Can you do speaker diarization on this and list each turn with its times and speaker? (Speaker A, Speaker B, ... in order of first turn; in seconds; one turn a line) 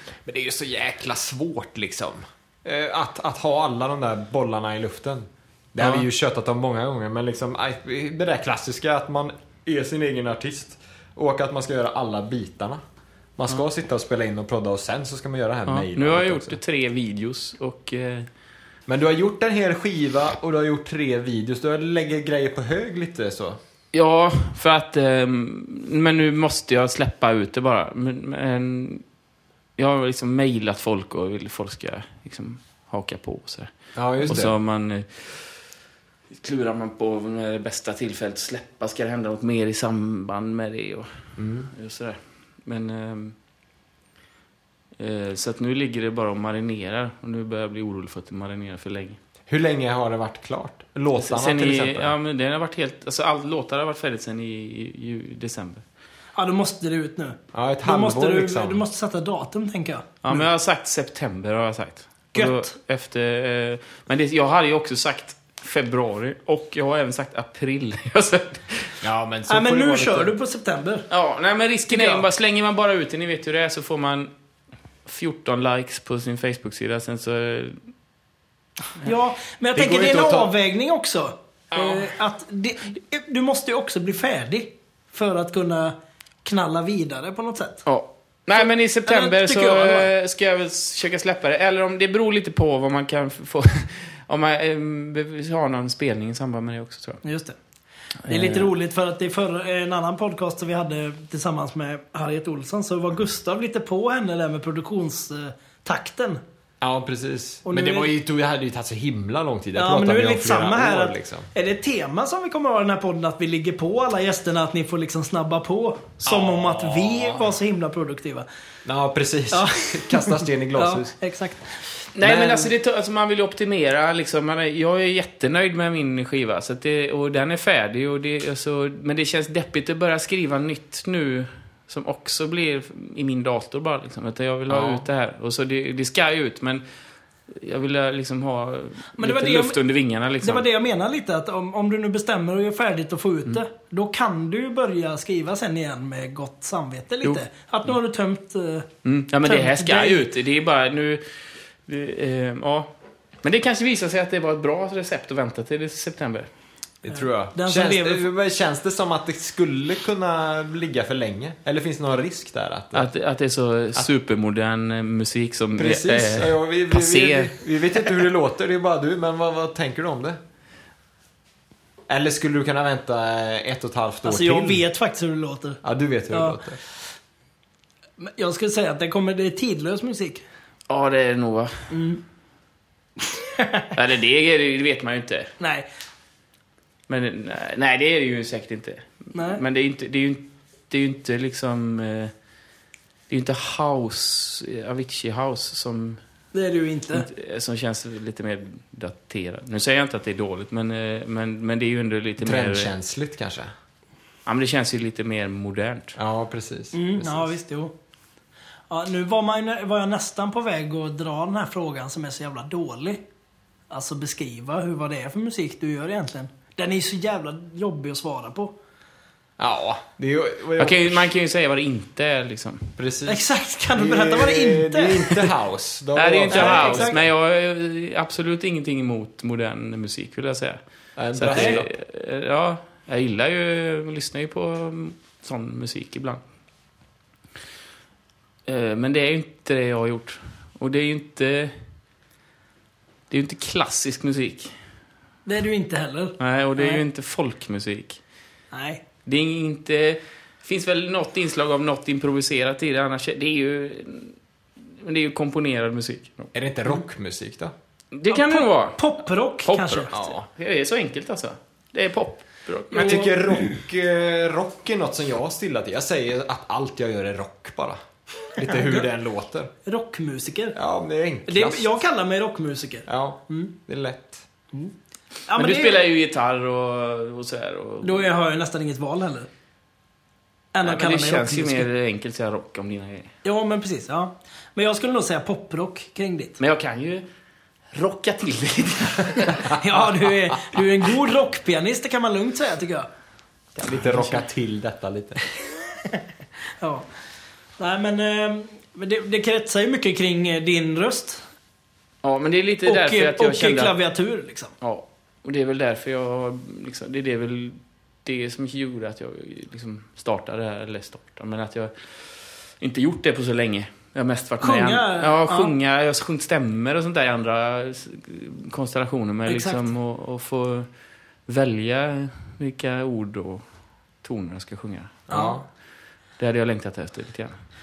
Speaker A: 0.2-12.8
Speaker B: 5.8-6.0
Speaker A: 13.4-16.6
Speaker B: 15.7-18.3
Speaker A: 18.9-23.6
Speaker B: 23.9-29.0
Speaker B: 29.8-33.7
Speaker A: 33.9-34.5
Speaker B: 34.2-35.6
Speaker B: 36.3-41.2
Speaker A: 41.4-41.7
Speaker B: 41.7-43.3
Speaker B: 45.0-49.2
Speaker A: 49.5-52.1
Speaker B: 51.2-55.8
Speaker C: 56.4-60.4
Speaker A: 57.5-58.8
Speaker B: 60.2-69.0
Speaker C: 62.3-62.7
Speaker A: 69.0-70.3
Speaker C: 69.5-71.0
Speaker B: 71.1-74.3
Speaker C: 71.9-72.2
Speaker B: 75.0-77.8
Speaker C: 79.0-87.8
Speaker A: 79.8-80.5
Speaker B: 81.7-82.1
Speaker B: 87.8-97.2
Speaker C: 88.5-90.1
Speaker C: 97.2-97.5
Speaker B: 98.3-98.7
Speaker C: 98.3-106.4
Speaker A: 106.8-111.5
Speaker C: 107.7-108.1
Speaker C: 109.8-118.5
Speaker A: 116.2-117.5
Speaker A: 118.8-121.1
Speaker C: 119.5-121.7
Speaker B: 122.1-136.8
Speaker A: 122.2-122.7
Speaker A: 134.7-135.0
Speaker B: 137.5-140.6
Speaker C: 139.1-139.8
Speaker C: 140.4-148.9
Speaker B: 149.0-151.2
Speaker C: 149.4-150.3
Speaker B: 151.8-152.9
Speaker B: 153.4-156.5
Speaker A: 157.0-163.1
Speaker C: 157.2-158.3
Speaker B: 162.9-167.5
Speaker A: 165.8-170.4
Speaker A: 172.1-174.8
Speaker C: 174.2-176.6
Speaker A: 175.8-176.8
Speaker C: 178.2-180.4
Speaker B: 180.9-181.7
Speaker C: 181.9-182.2
Speaker C: 183.3-183.9
Speaker B: 183.9-185.5
Speaker C: 185.6-185.8
Speaker B: 187.1-192.3
Speaker C: 189.3-189.6
Speaker B: 193.3-196.2
Speaker C: 196.5-197.3
Speaker B: 197.1-202.9
Speaker A: 202.4-203.7
Speaker B: 204.4-206.2
Speaker A: 206.2-207.5
Speaker C: 206.9-207.9
Speaker C: 208.9-213.2
Speaker C: 213.9-218.7
Speaker A: 219.6-221.2
Speaker B: 220.8-222.9
Speaker A: 223.0-227.2
Speaker C: 223.3-225.3
Speaker B: 226.2-230.8
Speaker C: 226.5-227.2
Speaker A: 231.2-231.9
Speaker B: 231.3-236.4
Speaker C: 231.5-231.8
Speaker B: 238.7-241.7
Speaker B: 243.3-244.7
Speaker C: 245.4-247.0
Speaker B: 246.4-248.2
Speaker C: 248.7-249.0
Speaker B: 249.2-256.5
Speaker A: 256.5-257.7
Speaker B: 258.1-259.1
Speaker C: 258.3-260.1
Speaker B: 259.6-263.3
Speaker A: 260.1-260.5
Speaker C: 262.9-263.3
Speaker A: 262.9-268.0
Speaker A: 268.6-269.7
Speaker C: 268.6-269.0
Speaker C: 269.8-270.8
Speaker A: 270.7-271.9
Speaker C: 271.5-273.7
Speaker A: 273.1-274.4
Speaker C: 275.5-276.0
Speaker B: 275.6-278.3
Speaker C: 278.0-279.5
Speaker C: 280.7-281.9
Speaker B: 280.8-283.3
Speaker C: 283.4-286.6
Speaker B: 286.6-287.2
Speaker B: 287.9-289.8
Speaker C: 289.4-293.1
Speaker B: 293.8-294.4
Speaker A: 293.8-295.4
Speaker C: 296.8-297.1
Speaker C: 297.8-301.4
Speaker B: 302.2-303.9
Speaker C: 302.9-304.7
Speaker B: 304.8-312.0
Speaker B: 312.8-320.9
Speaker C: 314.6-315.7
Speaker C: 319.4-319.9
Speaker B: 321.5-323.6
Speaker B: 324.2-325.3
Speaker A: 325.3-325.6
Speaker C: 325.3-325.6
Speaker B: 326.4-327.5